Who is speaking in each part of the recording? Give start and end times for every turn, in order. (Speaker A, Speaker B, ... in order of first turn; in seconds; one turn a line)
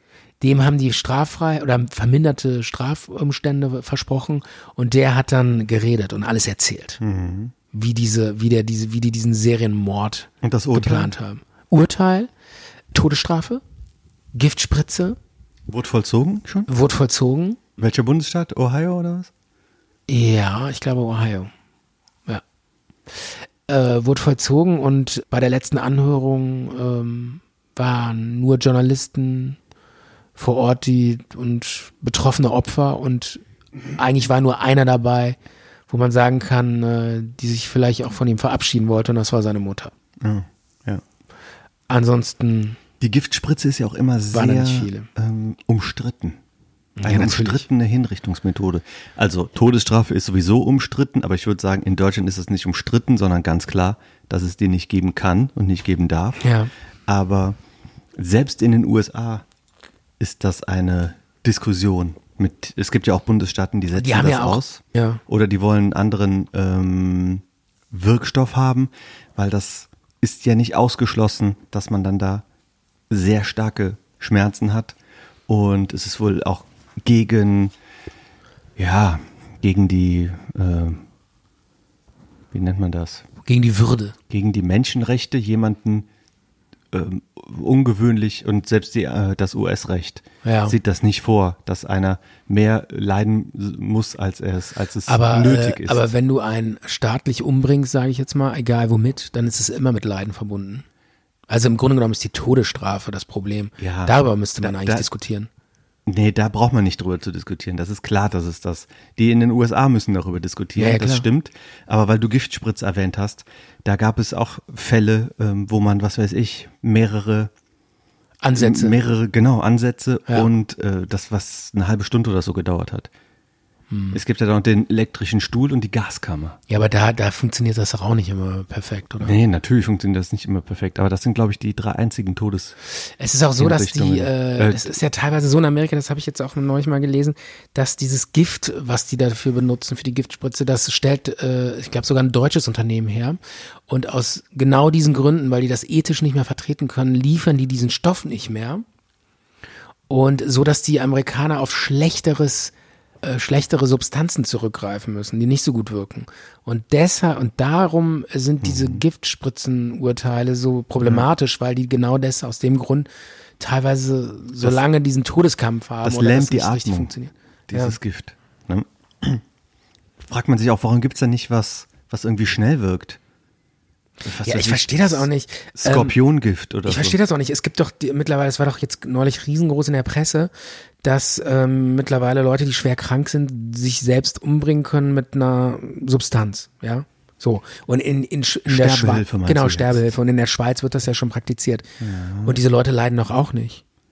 Speaker A: 0.4-7.0
Speaker B: 7.0-7.5
Speaker A: 7.7-12.3
Speaker B: 10.4-11.1
Speaker A: 12.9-13.6
Speaker A: 14.3-15.2
Speaker B: 15.7-16.7
Speaker A: 16.7-17.6
Speaker B: 17.8-19.3
Speaker A: 20.1-21.5
Speaker A: 23.1-29.6
Speaker A: 30.4-33.4
Speaker A: 33.9-35.4
Speaker A: 35.9-39.9
Speaker B: 40.2-41.0
Speaker A: 41.9-42.8
Speaker B: 43.0-46.4
Speaker A: 44.3-45.1
Speaker A: 47.0-47.7
Speaker B: 47.0-56.5
Speaker A: 56.4-56.7
Speaker B: 57.1-57.6
Speaker B: 58.2-59.4
Speaker B: 60.2-72.4
Speaker A: 64.0-65.2
Speaker B: 73.1-75.0
Speaker B: 75.5-77.7
Speaker B: 78.8-81.0
Speaker B: 82.5-83.2
Speaker A: 83.5-84.2
Speaker B: 84.3-86.1
Speaker B: 86.9-96.1
Speaker A: 90.4-90.8
Speaker A: 95.1-100.8
Speaker A: 101.5-105.5
Speaker B: 103.8-105.1
Speaker B: 106.1-117.5
Speaker A: 110.8-111.3
Speaker A: 118.4-119.0
Speaker B: 118.5-123.1
Speaker A: 123.9-124.2
Speaker B: 124.1-126.6
Speaker A: 126.7-129.3
Speaker B: 129.2-132.8
Speaker A: 133.0-148.8
Speaker B: 133.6-135.0
Speaker A: 150.1-163.1
Speaker B: 158.6-159.0
Speaker B: 161.0-161.3
Speaker A: 163.6-167.9
Speaker B: 166.0-167.1
Speaker B: 167.7-169.4
Speaker B: 170.2-173.2
Speaker B: 174.2-177.2
Speaker A: 174.4-176.2
Speaker A: 176.8-180.5
Speaker A: 181.0-191.9
Speaker B: 188.7-190.1
Speaker B: 192.0-192.6
Speaker A: 192.4-193.8